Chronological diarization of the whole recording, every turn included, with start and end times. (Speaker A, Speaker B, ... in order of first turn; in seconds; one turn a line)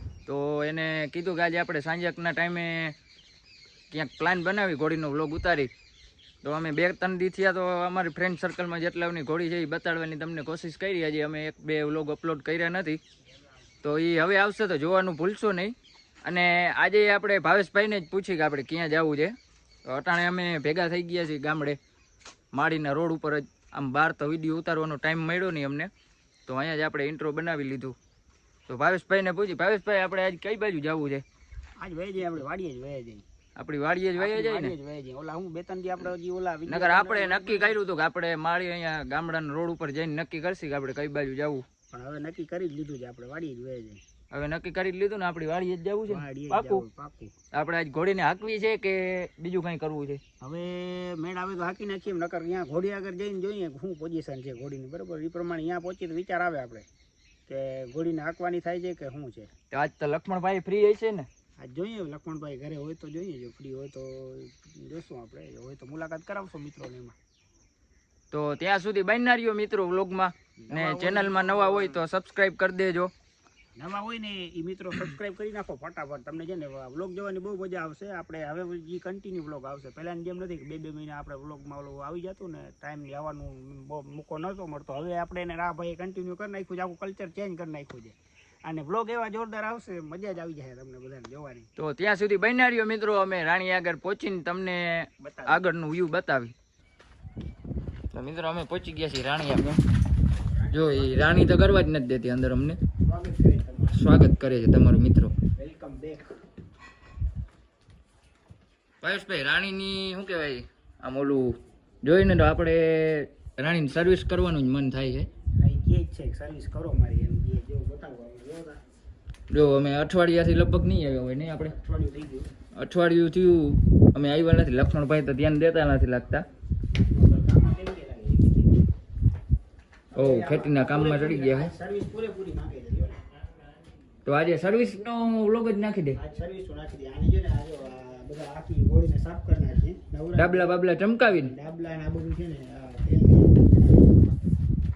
Speaker A: 0.2-2.9
Speaker A: 3.9-5.7
Speaker A: 6.4-13.0
Speaker B: 13.2-13.6
Speaker A: 13.8-19.3
Speaker A: 19.9-21.8
Speaker A: 22.5-25.9
Speaker A: 26.4-27.9
Speaker A: 28.7-31.2
Speaker B: 31.8-33.2
Speaker A: 33.5-34.7
Speaker B: 34.1-37.8
Speaker A: 36.7-41.6
Speaker B: 41.9-44.0
Speaker A: 44.3-46.8
Speaker B: 46.1-47.3
Speaker A: 47.5-50.2
Speaker B: 50.4-56.9
Speaker B: 57.5-59.5
Speaker A: 59.7-61.3
Speaker B: 61.6-67.2
Speaker A: 68.3-73.1
Speaker B: 70.6-72.0
Speaker B: 73.8-91.7
Speaker A: 91.8-96.5
Speaker B: 95.2-95.6
Speaker A: 98.1-99.8
Speaker B: 100.3-101.4
Speaker A: 100.7-102.8
Speaker B: 103.0-104.0
Speaker A: 103.9-105.3
Speaker B: 105.5-106.3
Speaker A: 109.0-115.3
Speaker B: 115.6-118.8
Speaker A: 119.5-121.7
Speaker B: 121.6-122.5
Speaker A: 122.7-126.5
Speaker B: 126.9-128.8
Speaker B: 130.1-133.2
Speaker A: 130.2-131.7
Speaker A: 134.2-136.2
Speaker B: 136.2-144.5
Speaker A: 140.3-141.5